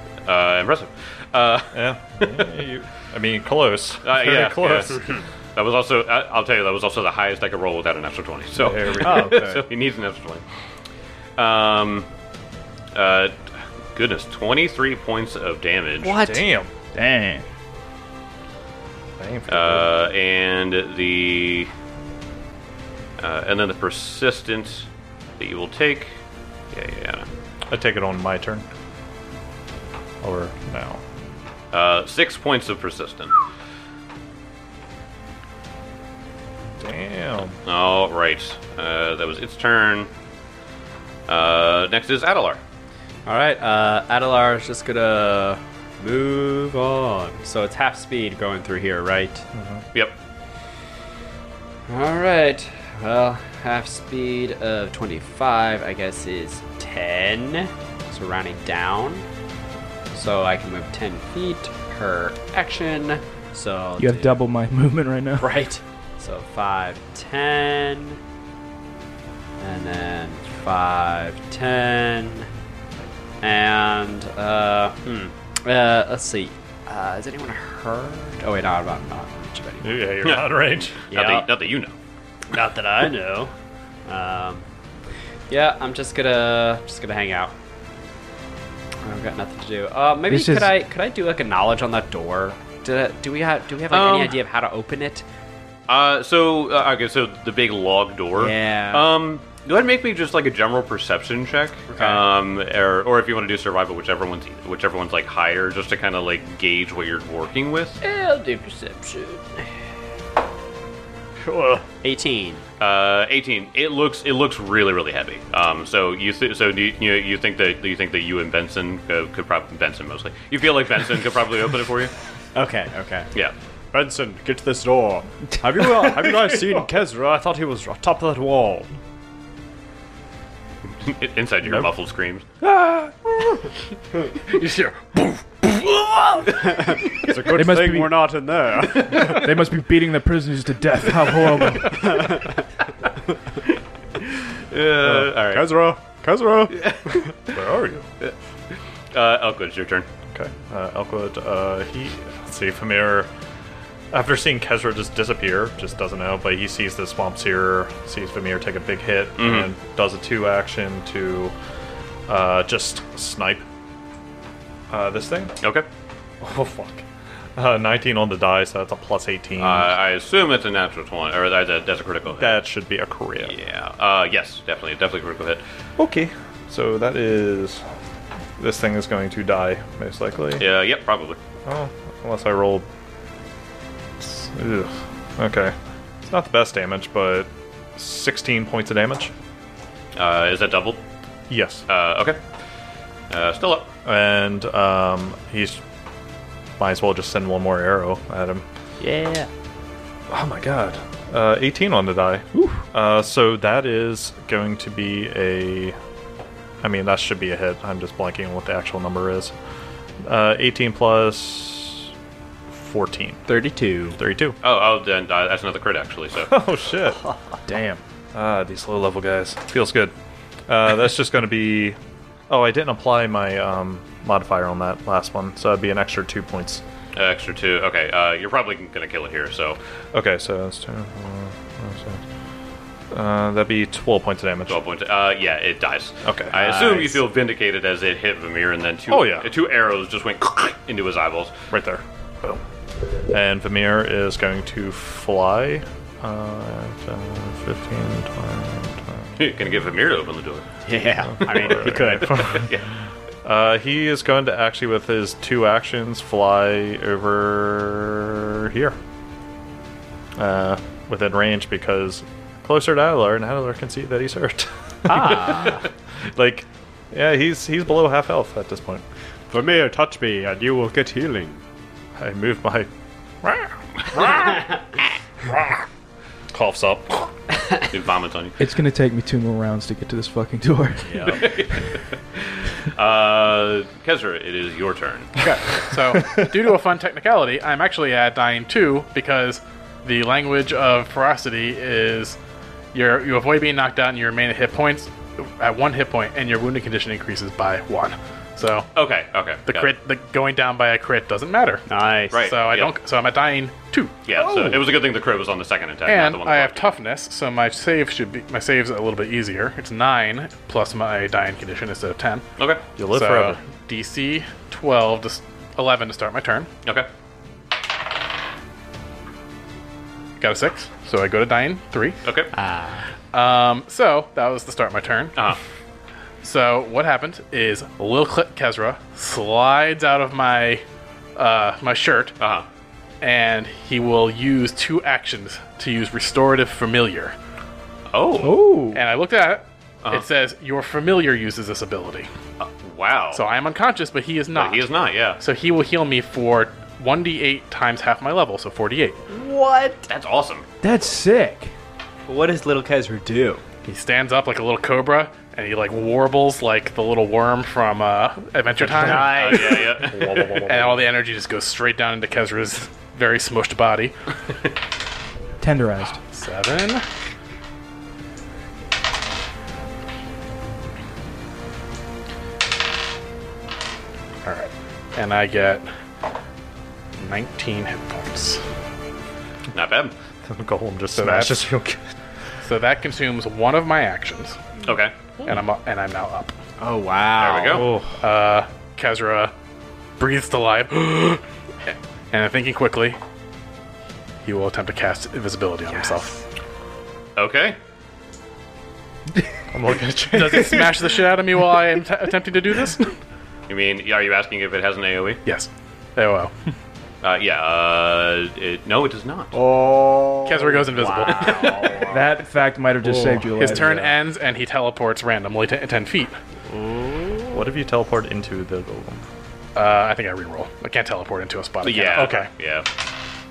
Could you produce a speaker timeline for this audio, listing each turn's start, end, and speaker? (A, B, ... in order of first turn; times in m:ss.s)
0:00.2-0:02.5 A
0:01.7-0:05.2 B
0:04.0-0:05.0 A
0:05.5-0:10.4 A
0:08.5-0:09.5 B
0:09.0-0:09.6 C
0:09.1-0:09.4 D
0:11.4-0:12.1 A
0:12.9-0:13.4 A
0:13.9-0:16.2 A
0:16.0-0:16.4 C
0:16.0-0:16.7 B
0:16.9-0:17.4 E
0:19.2-0:19.9 B
0:19.5-0:21.7 A
0:23.2-0:24.9 A
0:25.4-0:26.1 A
0:26.7-0:27.2 A
0:27.7-0:28.6 B
0:30.2-0:31.0 B
0:31.7-0:33.3 A
0:36.8-0:37.6 B
0:37.6-0:40.1 A
0:41.3-0:42.6 A
0:43.2-0:49.4 C
0:49.5-0:49.8 B
0:51.9-0:59.2 C
1:00.1-1:04.4 C
1:04.0-1:05.5 E
1:05.4-1:08.2 C
1:09.6-1:12.5 C
1:13.4-1:20.2 C
1:19.8-1:21.0 B
1:20.2-1:20.5 A
1:21.0-1:21.9 A
1:21.1-1:21.5 C
1:22.5-1:23.5 C
1:24.0-1:24.6 C
1:25.5-1:27.5 C
1:29.0-1:35.2 C
1:30.3-1:30.7 E
1:33.9-1:34.4 A
1:35.9-1:48.0 A
1:38.4-1:39.1 C
1:41.9-1:42.2 C
1:48.0-1:49.6 C
1:51.4-1:51.8 D
1:52.0-1:52.6 C
1:52.8-2:02.1 A
2:02.5-2:03.3 C
2:03.9-2:08.9 D
2:05.6-2:06.8 C
2:11.0-2:12.4 A
2:12.6-2:13.2 E
2:14.5-2:16.4 F
2:17.3-2:19.5 D
2:17.5-2:18.2 E
2:19.1-2:22.2 E
2:24.5-2:25.7 A
2:25.3-2:26.9 D
2:26.7-2:27.6 A
2:27.5-2:28.1 B
2:29.1-2:30.1 A
2:30.3-2:33.3 B
2:34.1-2:41.5 B
2:39.4-2:39.7 A
2:42.3-2:43.6 B
2:44.9-2:45.6 B
2:45.6-2:45.9 A
2:46.4-2:47.0 B
2:47.6-2:49.9 B
2:49.6-2:52.6 A
2:52.4-2:53.5 B
2:53.4-2:55.6 A
2:56.0-2:57.8 B
2:58.6-3:00.6 B
3:00.6-3:01.4 A
3:01.6-3:02.9 B
3:04.2-3:09.3 B
3:10.1-3:11.0 A
3:11.5-3:11.8 B
3:11.9-3:12.4 A
3:13.3-3:13.9 A
3:14.0-3:15.8 B
3:16.8-3:18.6 B
3:19.0-3:19.5 C
3:20.3-3:26.0 B
3:22.5-3:22.8 E
3:26.8-3:29.5 B
3:30.2-3:32.1 B
3:32.7-3:33.5 B
3:33.5-3:34.2 C
3:34.2-3:34.6 B
3:34.6-3:36.5 A
3:36.4-3:37.3 B
3:37.7-3:38.0 E
3:38.3-3:40.1 B
3:40.7-3:42.0 B
3:42.5-3:46.8 B
3:47.1-3:49.8 A
3:50.1-3:52.2 B
3:53.1-3:54.8 B
3:54.7-4:01.5 A
3:56.2-3:56.5 B
3:56.5-3:57.2 C
3:59.1-3:59.5 B
4:01.7-4:02.6 B
4:03.3-4:09.3 B
4:09.4-4:10.6 A
4:10.8-4:12.5 C
4:11.3-4:12.8 B
4:12.4-4:12.9 A
4:13.4-4:19.0 B
4:20.4-4:29.0 B
4:25.1-4:25.8 C
4:29.5-4:31.6 D
4:32.2-4:32.9 B
4:33.4-4:34.8 B
4:35.5-4:35.8 B
4:36.5-4:37.3 B
4:37.9-4:38.6 A
4:38.6-4:41.4 E
4:41.2-4:45.3 A
4:45.4-4:52.4 F
4:52.9-4:58.9 F
4:58.9-4:59.9 A
4:59.7-5:04.3 F
5:01.9-5:02.4 C
5:02.3-5:02.9 A
5:04.2-5:07.0 A
5:06.0-5:12.4 F
5:13.0-5:13.6 B
5:13.1-5:16.7 F
5:20.4-5:22.2 F
5:22.2-5:22.5 A
5:22.5-5:23.0 C
5:23.3-5:25.3 F
5:26.4-5:30.8 F
5:31.4-5:32.4 F
5:32.4-5:32.6 A
5:33.2-5:37.3 F
5:38.1-5:38.6 A
5:38.4-5:39.0 E
5:38.9-5:42.3 F
5:42.6-5:43.4 A
5:43.3-5:44.8 F
5:44.5-5:45.4 A
5:45.4-5:49.2 F
5:49.3-5:50.1 C
5:50.1-5:50.6 A
5:50.8-5:51.7 E
5:52.3-5:53.6 C
5:53.8-5:59.9 F
5:58.9-6:01.1 B
5:58.9-5:59.9 C
5:59.1-6:00.6 A
6:00.6-6:04.1 F
6:05.6-6:06.2 E
6:06.2-6:07.0 F
6:14.4-6:15.9 F
6:17.2-6:18.6 F
6:19.7-6:20.1 A
6:20.4-6:22.0 B
6:21.2-6:21.6 F
6:22.6-6:24.6 F
6:24.8-6:25.1 A
6:25.4-6:26.5 F
6:26.8-6:27.9 C
6:27.4-6:27.9 A
6:27.7-6:28.2 B
6:28.2-6:29.5 F
6:30.2-6:33.2 F
6:34.4-6:36.4 F
6:37.4-6:37.8 A
6:39.7-6:41.2 B
6:40.3-6:43.1 F
6:43.7-6:45.4 A
6:45.4-6:46.5 F
6:47.2-6:49.6 A
6:49.5-6:52.1 D
6:50.4-6:51.8 F
6:50.9-6:52.1 C
6:52.1-6:54.1 E
6:53.5-6:56.4 F
6:56.7-6:57.3 D
6:57.5-6:59.2 B
6:59.7-7:02.5 F
7:01.8-7:02.8 A